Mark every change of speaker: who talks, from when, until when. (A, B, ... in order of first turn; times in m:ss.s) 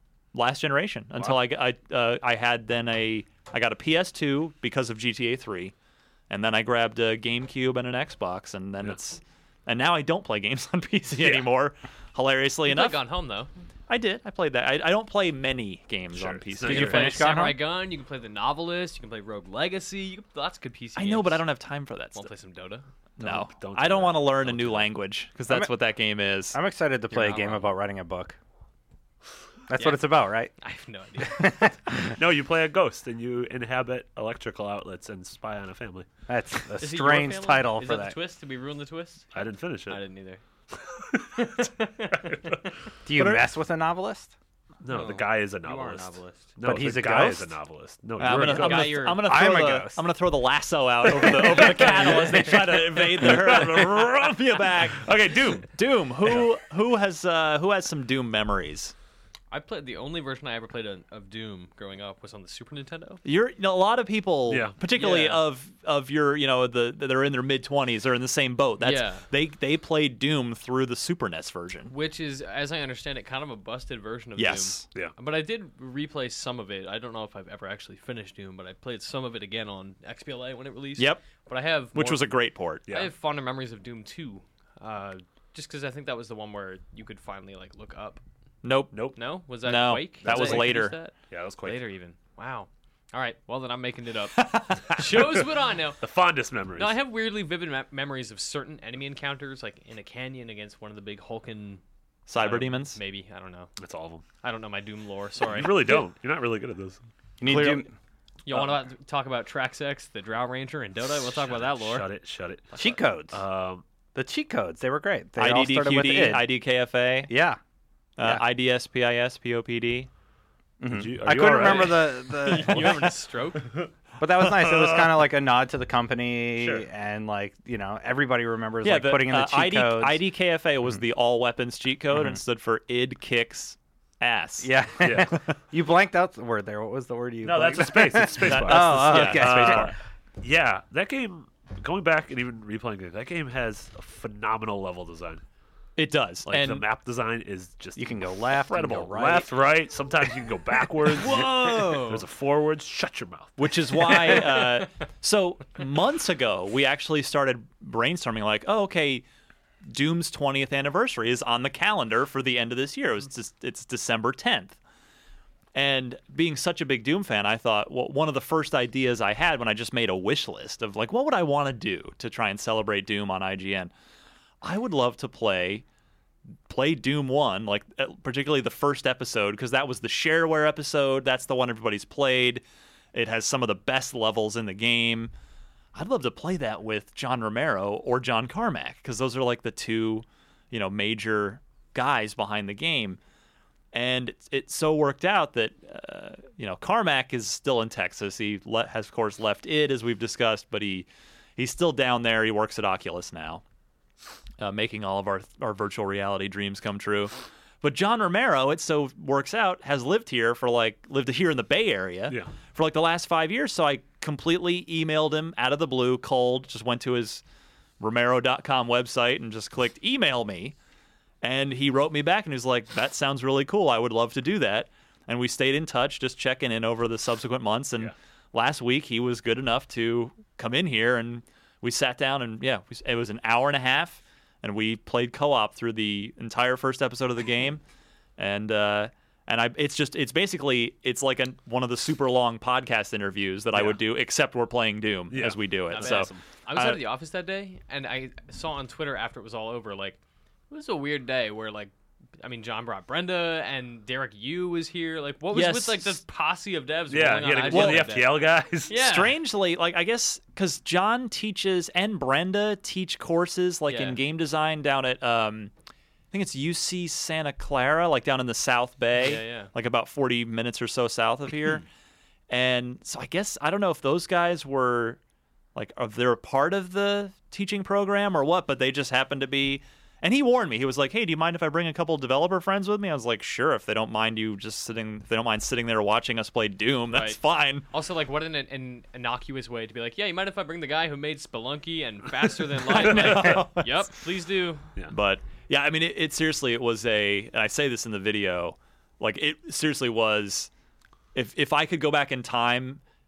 0:00.3-0:05.7 A
0:01.2-0:01.4 B
0:06.3-0:13.0 A
0:11.1-0:11.5 B
0:12.7-0:13.5 C
0:13.9-0:17.4 A
0:16.1-0:17.3 B
0:16.6-0:17.6 D
0:16.7-0:21.4 C
0:21.0-0:22.3 A
0:22.2-0:22.9 C
0:23.2-0:25.0 B
0:23.2-0:26.6 A
0:26.5-0:28.4 D
0:27.1-0:27.8 C
0:29.7-0:30.5 D
0:29.8-0:31.8 C
0:31.4-0:31.7 D
0:32.1-0:36.1 B
0:36.3-0:38.2 D
0:36.8-0:40.4 C
0:39.3-0:40.0 B
0:41.1-0:41.6 B
0:41.4-0:42.4 C
0:42.2-0:42.6 B
0:43.1-0:44.3 D
0:43.2-0:43.5 B
0:44.8-0:49.1 B
0:44.9-0:46.5 C
0:46.6-0:47.6 D
0:48.2-0:58.9 A
0:48.3-0:49.3 C
0:49.2-0:50.0 D
0:51.0-0:56.5 B
0:51.5-0:52.5 C
0:59.5-1:03.2 C
1:03.2-1:11.9 A
1:04.5-1:04.8 B
1:04.9-1:05.4 C
1:08.8-1:09.3 C
1:11.9-1:22.4 C
1:14.4-1:14.9 A
1:21.0-1:21.2 A
1:21.9-1:22.9 A
1:22.9-1:23.1 B
1:22.9-1:28.2 C
1:28.6-1:31.0 A
1:28.9-1:29.2 B
1:29.2-1:36.0 C
1:30.2-1:31.8 B
1:36.0-1:37.0 B
1:36.8-1:41.8 C
1:42.3-1:43.0 A
1:42.4-1:43.7 C
1:43.8-1:44.3 B
1:44.4-1:46.0 C
1:45.4-1:47.0 B
1:47.4-1:47.9 D
1:48.5-1:52.1 C
1:48.5-1:48.8 B
1:51.2-1:52.8 B
1:52.7-1:53.0 C
1:52.8-1:53.4 D
1:53.3-1:53.8 B
1:54.2-1:56.5 D
1:55.4-1:57.3 A
1:57.3-1:57.6 D
1:58.2-2:00.1 A
2:00.8-2:03.1 D
2:00.9-2:02.5 B
2:01.5-2:03.7 C
2:04.2-2:10.2 D
2:04.5-2:05.0 B
2:06.6-2:06.9 B
2:08.8-2:14.8 A
2:14.6-2:20.0 D
2:15.0-2:15.3 B
2:17.4-2:25.4 B
2:18.4-2:19.9 A
2:26.0-2:26.9 A
2:26.4-2:34.4 B
2:28.0-2:29.6 D
2:31.2-2:32.2 C
2:33.6-2:39.2 A
2:34.4-2:34.8 C
2:39.9-2:44.8 A
2:45.7-2:53.9 A
2:54.6-2:55.8 A
2:56.7-3:02.6 A
3:03.1-3:05.3 A
3:06.0-3:13.2 A
3:13.9-3:23.6 A
3:24.6-3:37.4 A
3:32.3-3:32.6 B
3:38.0-3:40.8 A
3:41.4-3:57.8 A
3:58.4-4:07.0 A
4:03.7-4:04.0 B
4:05.3-4:06.5 B
4:05.9-4:10.2 C
4:10.7-4:19.3 C
4:15.5-4:16.2 A
4:17.1-4:19.0 B
4:17.7-4:18.2 A
4:19.0-4:25.7 A
4:23.9-4:24.2 C
4:26.3-4:31.8 A
4:29.2-4:29.7 C
4:32.5-4:35.2 A
4:35.8-4:47.9 A
4:47.1-4:54.9 C
4:52.8-4:54.1 A
4:53.2-4:53.6 B
4:55.1-5:00.7 A
5:01.3-5:03.0 A